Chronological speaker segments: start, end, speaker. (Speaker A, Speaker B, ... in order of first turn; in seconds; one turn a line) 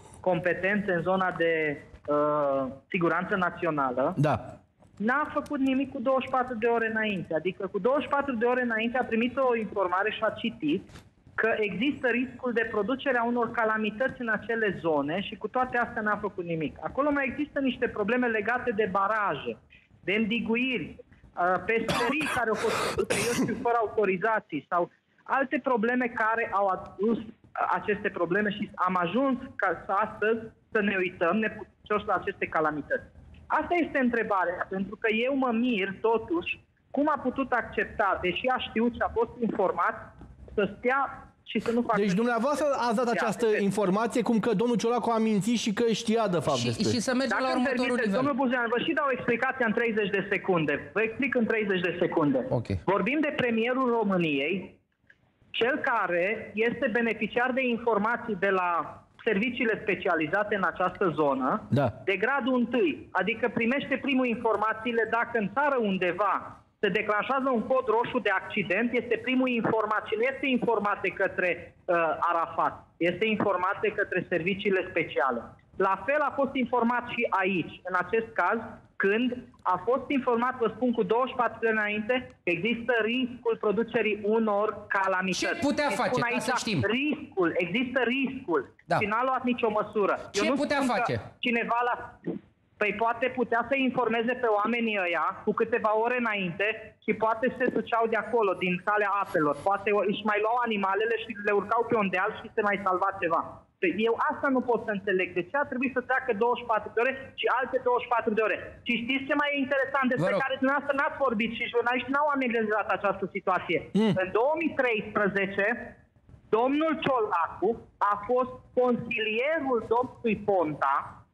Speaker A: 0.2-4.2
Speaker A: 5.0-43.7
Speaker B: 41.9-47.0
Speaker C: 46.5-48.3
Speaker A: 47.3-54.8
Speaker C: 52.5-52.8
Speaker A: 55.5-92.1
Speaker C: 85.3-86.9
Speaker C: 90.3-91.2
Speaker A: 92.8-115.9
Speaker C: 110.2-110.4
Speaker A: 116.5-121.0